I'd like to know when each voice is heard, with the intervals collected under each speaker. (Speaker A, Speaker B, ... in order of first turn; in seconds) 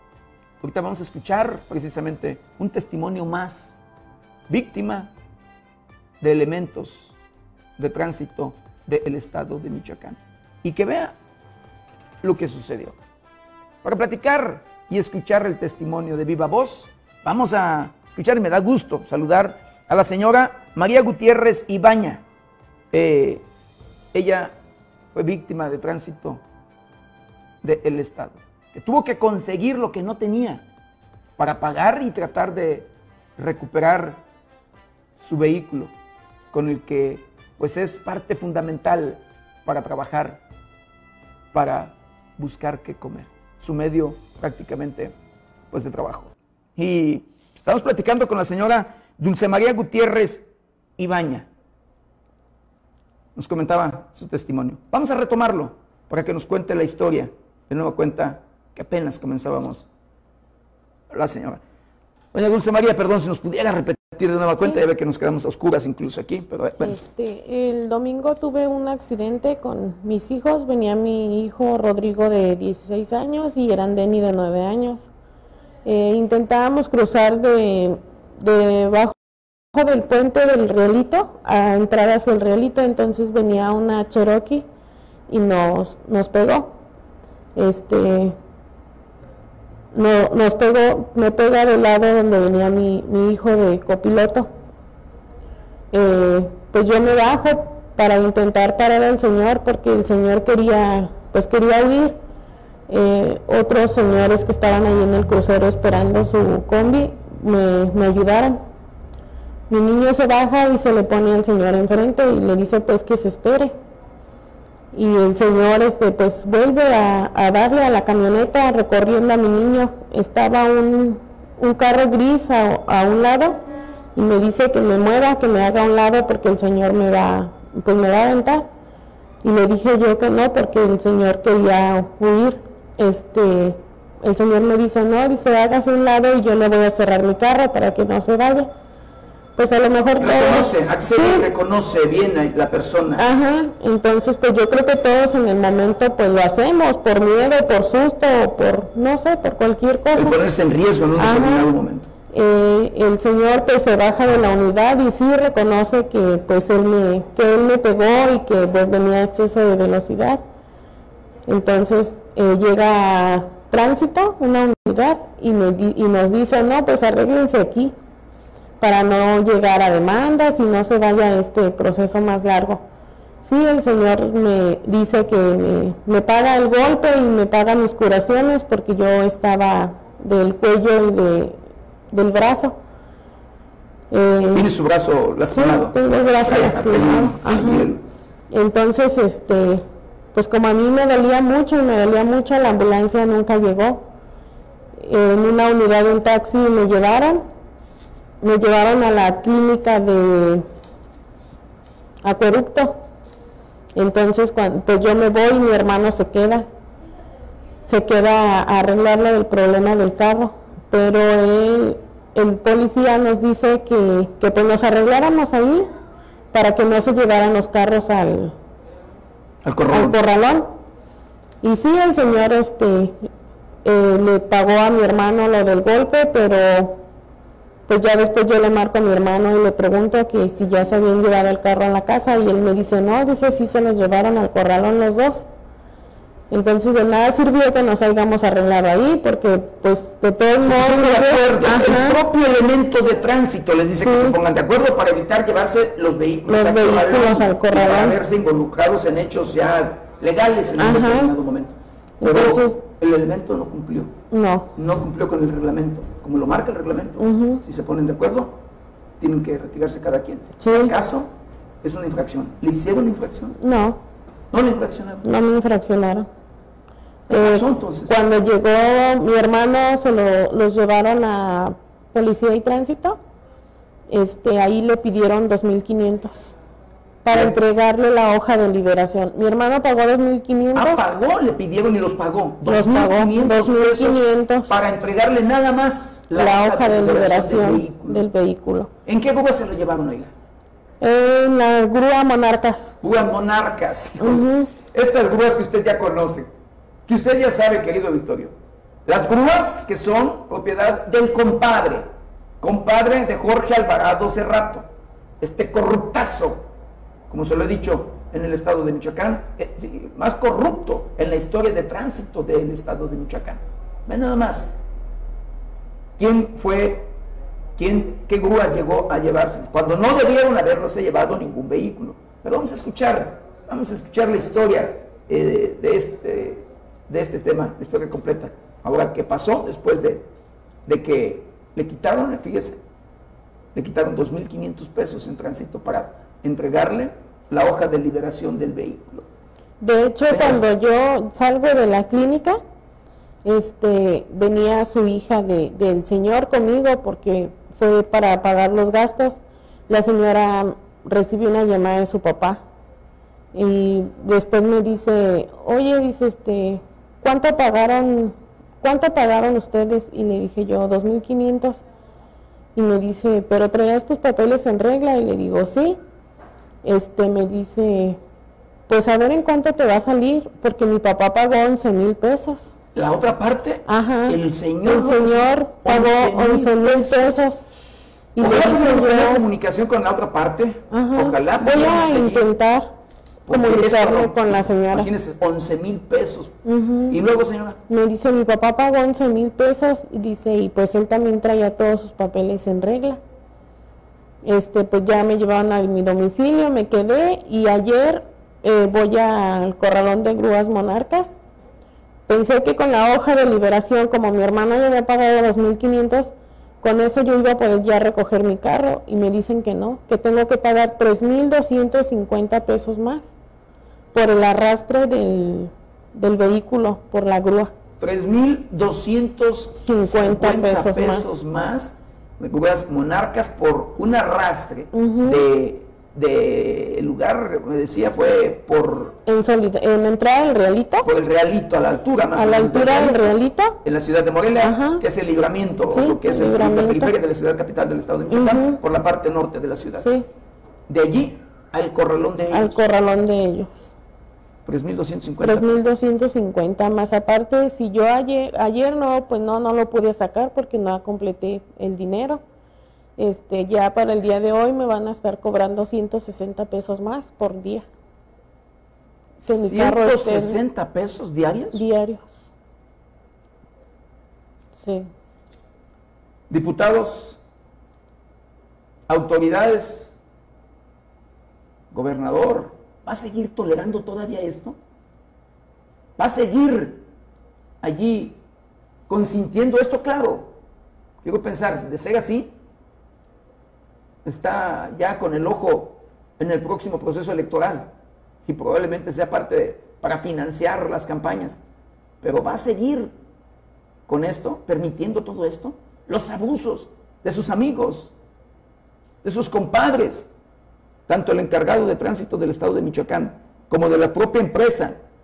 Speaker A: 0.6-3.8, 4.5-5.1, 6.2-7.1, 7.8-11.2, 12.2-13.0, 13.8-22.2, 22.9-23.4, 24.1-24.5, 25.1-26.4, 27.6-30.6, 31.4-34.2, 35.2-35.9, 36.5-40.4, 41.5-45.1, 45.7-50.5, 51.0-51.5, 53.4-59.9, 61.1-61.6, 62.3-67.0, 140.2-143.2, 150.1-152.1, 184.5-188.0, 219.6-220.2, 240.6-254.1, 254.7-258.6, 259.2-261.3, 261.8-263.6, 264.5-265.3, 267.3-268.1, 277.3-277.5, 280.7-288.2, 289.0-290.3, 293.0-296.5, 297.1-298.5, 299.1-302.0, 302.6-304.9, 305.4-306.7, 307.3-314.8, 316.2-317.1, 317.8-330.2, 330.9-332.8, 333.7-339.2, 340.3-340.6, 372.9-377.4, 378.4-382.4, 383.4-386.6, 387.1-387.8, 418.0-429.2, 431.0-433.3, 433.8-440.1, 440.9-442.8, 444.6-445.7, 459.4-461.8, 466.5-467.4, 469.1-470.2, 471.9-474.8, 476.2-477.0, 477.8-478.4, 479.1-480.5, 481.2-482.5, 484.2-487.9, 488.4-491.6, 492.2-493.1, 494.1-498.1, 499.2-500.3, 501.1-504.9
Speaker B: 66.8-75.1, 75.8-79.2, 79.7-84.6, 85.3-86.8, 87.5-88.4, 89.9-94.5, 95.9-102.2, 102.9-108.6, 109.7-113.7, 114.9-123.6, 124.1-128.7, 129.4-138.7, 139.6-141.5, 143.2-150.4, 151.2-151.7, 152.3-160.4, 161.4-167.9, 168.8-172.8, 173.4-181.6, 182.1-182.8, 184.1-184.7, 185.5-187.9, 188.5-189.8, 190.3-194.1, 195.0-197.4, 198.4-200.6, 202.2-203.0, 203.9-206.7, 207.9-215.9, 216.5-218.5, 219.9-220.8, 221.6-223.3, 223.8-227.0, 227.9-235.5, 236.5-242.2, 244.0-244.4, 246.5-248.2, 250.8-251.3, 252.2-252.8, 254.3-254.7, 257.2-257.6, 260.6-260.9, 263.6-264.0, 265.2-266.2, 267.3-273.2, 274.1-276.5, 277.2-281.0, 282.6-284.8, 286.3-288.9, 291.0-293.0, 294.2-294.7, 339.8-342.6, 343.4-352.6, 353.5-361.8, 362.8-366.0, 366.8-368.2, 368.9-372.7, 373.9-377.6, 378.3-379.4, 380.9-382.9, 383.5-385.1, 386.6-387.2, 387.9-393.2, 394.4-401.4, 402.3-413.3, 414.1-417.7, 419.8-421.4, 424.9-425.4, 429.2-431.1, 432.3-433.8, 434.6-435.0, 435.9-437.1, 438.3-438.8, 440.0-440.2, 442.5-443.9, 445.4-452.4, 453.2-457.9, 459.4-460.6, 461.7-462.4, 464.7-465.1